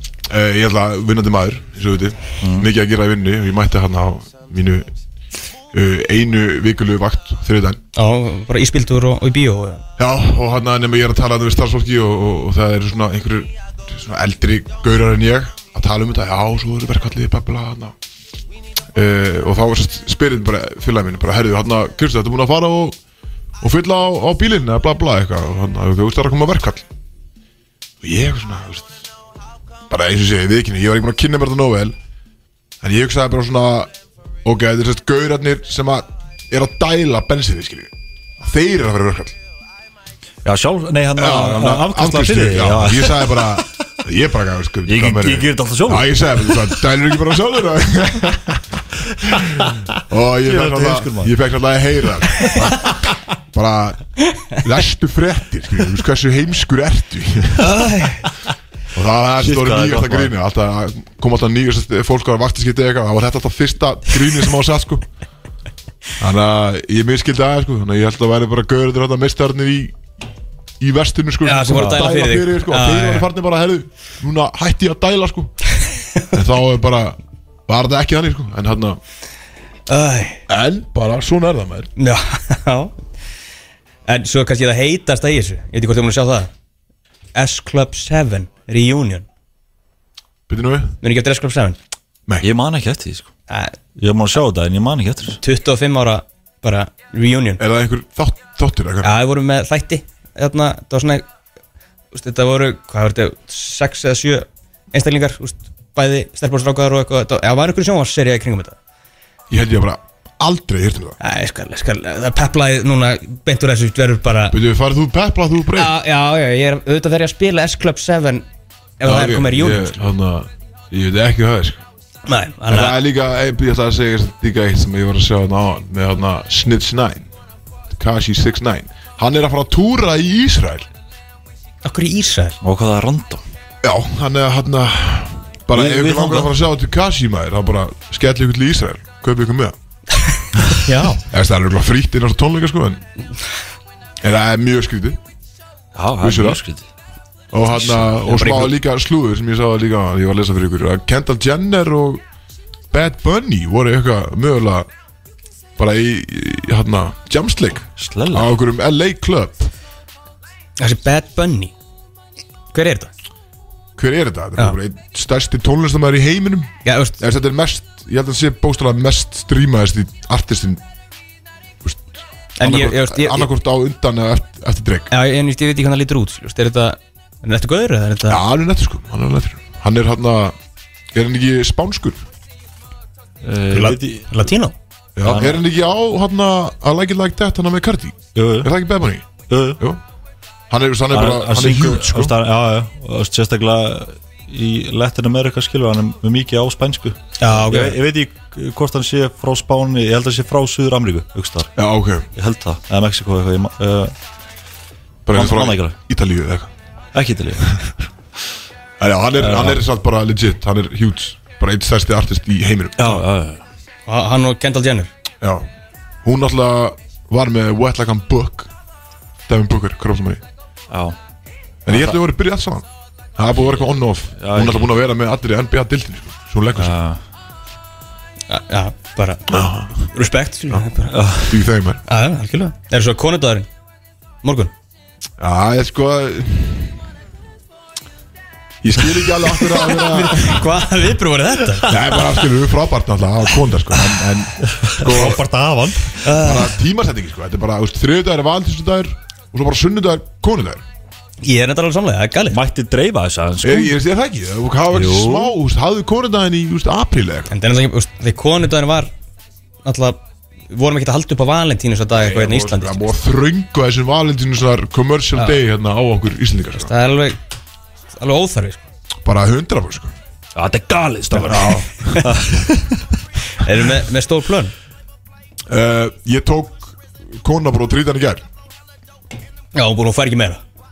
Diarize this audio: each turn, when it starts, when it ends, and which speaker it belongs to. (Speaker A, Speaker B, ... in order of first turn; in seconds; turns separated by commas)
Speaker A: 0.3-4.9, Speaker B: 2.4-2.7, Speaker A: 5.7-7.8, Speaker C: 8.0-9.8, Speaker A: 10.0-17.9, Speaker A: 18.9-23.0, Speaker A: 23.6-26.9, Speaker A: 28.0-29.0, Speaker A: 29.9-32.0, Speaker A: 32.8-33.9, Speaker A: 34.4-39.4, Speaker B: 40.5-43.6, Speaker A: 41.2-48.6, Speaker B: 44.9-46.8, Speaker A: 49.2-57.7, Speaker B: 50.5-51.3, Speaker C: 57.6-58.3, Speaker A: 58.9-65.1, Speaker B: 59.4-60.3, Speaker A: 66.2-70.0, Speaker A: 70.8-75.5, Speaker C: 71.4-73.3, Speaker A: 76.3-79.0, Speaker C: 79.9-80.4, Speaker A: 80.5-81.9, Speaker C: 82.0-83.0, Speaker C: 84.1-86.5, Speaker C: 87.3-89.3, Speaker A: 90.5-91.0, Speaker C: 91.0-91.8, Speaker B: 92.4-93.3, Speaker C: 93.5-93.8, Speaker B: 94.0-95.4, Speaker C: 95.4-97.6, Speaker A: 97.6-99.1, Speaker C: 99.0-101.3, Speaker C: 102.1-108.8, Speaker A: 109.5-111.2, Speaker C: 111.2-114.6, Speaker A: 114.5-116.0, Speaker C: 115.8-118.5, Speaker C: 119.0-120.0, Speaker A: 119.0-121.8, Speaker C: 122.3-123.0, Speaker A: 122.7-127.3, Speaker A: 127.9-130.9, Speaker C: 131.8-132.6, Speaker B: 132.6-133.4, Speaker A: 133.8-139.8, Speaker B: 135.7-136.5, Speaker C: 140.7-141.2, Speaker A: 141.3-143.0, Speaker A: 144.2-145.2, Speaker B: 145.9-146.8, Speaker A: 146.2-146.6, Speaker A: 147.5-152.2, Speaker C: 147.8-148.7, Speaker A: 152.9-154.9, Speaker A: 155.8-159.7, Speaker B: 158.0-158.5, Speaker C: 160.8-161.7, Speaker C: 162.7-163.1, Speaker A: 164.0-170.8, Speaker C: 166.8-167.2, Speaker A: 171.8-175.1, Speaker C: 172.6-173.5, Speaker C: 175.1-178.4, Speaker A: 178.3-180.6, Speaker A: 181.1-182.2, Speaker B: 183.4-184.4, Speaker C: 183.7-184.8, Speaker A: 185.2-190.0, Speaker B: 185.2-185.6, Speaker B: 188.3-188.7, Speaker B: 189.5-189.8, Speaker A: 190.7-192.3, Speaker B: 191.1-201.7, Speaker C: 197.4-198.0, Speaker A: 201.8-202.3, Speaker B: 202.3-204.1, Speaker A: 205.3-206.7, Speaker B: 205.3-206.0, Speaker B: 207.1-207.9, Speaker A: 209.0-213.2, Speaker B: 209.4-209.8, Speaker B: 213.0-213.6, Speaker C: 214.1-215.1, Speaker A: 215.4-215.7, Speaker A: 216.2-218.7, Speaker A: 219.5-220.4, Speaker B: 220.9-221.2, Speaker A: 221.8-227.0, Speaker B: 221.9-222.2, Speaker B: 224.4-224.9, Speaker B: 226.8-227.2, Speaker C: 228.5-231.2, Speaker A: 229.5-230.1, Speaker B: 231.1-231.6, Speaker A: 231.5-232.0, Speaker C: 232.1-233.7, Speaker C: 234.4-234.7, Speaker A: 235.4-236.9, Speaker A: 238.8-240.6, Speaker C: 239.8-242.0, Speaker A: 241.8-245.4, Speaker B: 244.9-246.2, Speaker C: 246.2-246.7, Speaker A: 246.3-250.8, Speaker C: 251.4-252.6, Speaker B: 252.5-254.0, Speaker A: 253.6-257.5, Speaker B: 254.9-255.5, Speaker C: 257.5-259.1, Speaker C: 259.9-263.0, Speaker A: 262.1-266.9, Speaker C: 266.8-267.4, Speaker C: 268.1-268.8, Speaker A: 269.2-270.1, Speaker B: 270.6-273.0, Speaker C: 271.4-271.7, Speaker A: 271.4-272.3, Speaker C: 273.6-274.7, Speaker A: 275.7-278.5, Speaker C: 279.7-280.6